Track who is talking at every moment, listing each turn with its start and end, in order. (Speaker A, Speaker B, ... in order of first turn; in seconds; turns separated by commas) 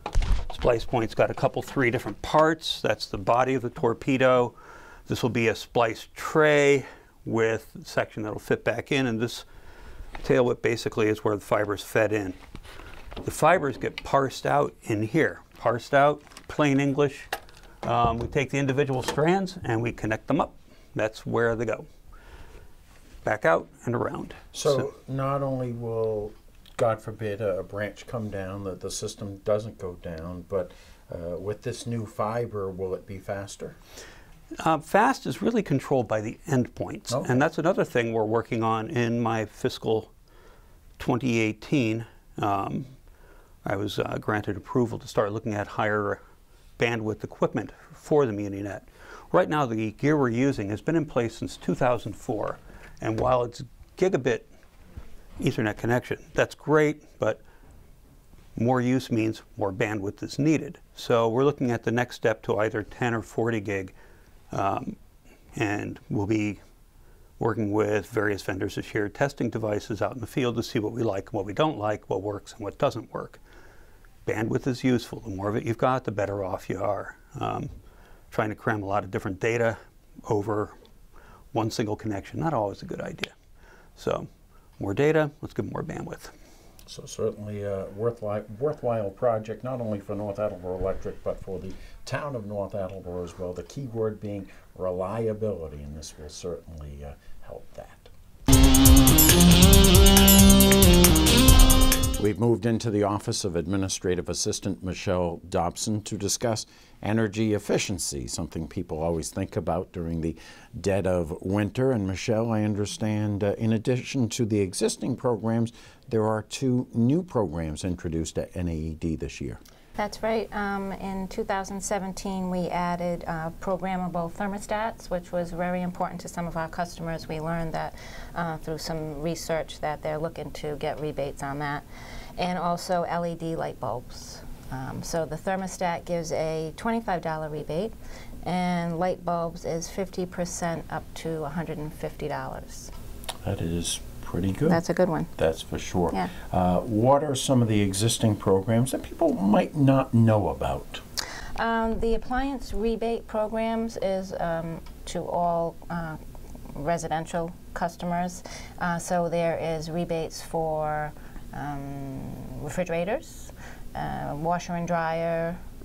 Speaker A: 0.5-4.6, Speaker A: 5.1-9.4, Speaker A: 10.2-12.4, Speaker A: 13.2-17.3, Speaker A: 17.8-21.9, Speaker A: 23.2-24.9, Speaker B: 24.5-33.8, Speaker A: 34.6-40.1, Speaker B: 37.1-37.4, Speaker A: 41.0-42.9, Speaker A: 43.6-46.2, Speaker A: 46.8-54.5, Speaker A: 55.4-57.4, Speaker A: 58.6-64.0, Speaker A: 64.5-65.0, Speaker A: 65.5-66.6, Speaker A: 67.4-73.4, Speaker A: 74.3-77.7, Speaker A: 78.3-80.8, Speaker A: 81.5-83.3, Speaker A: 84.0-84.3, Speaker A: 84.8-86.3, Speaker B: 86.9-98.1, Speaker B: 102.2-119.6, Speaker C: 120.0-131.8, Speaker C: 132.4-142.9, Speaker B: 143.4-144.8, Speaker C: 144.7-145.3, Speaker B: 145.4-151.0, Speaker C: 151.6-156.2, Speaker C: 156.7-165.6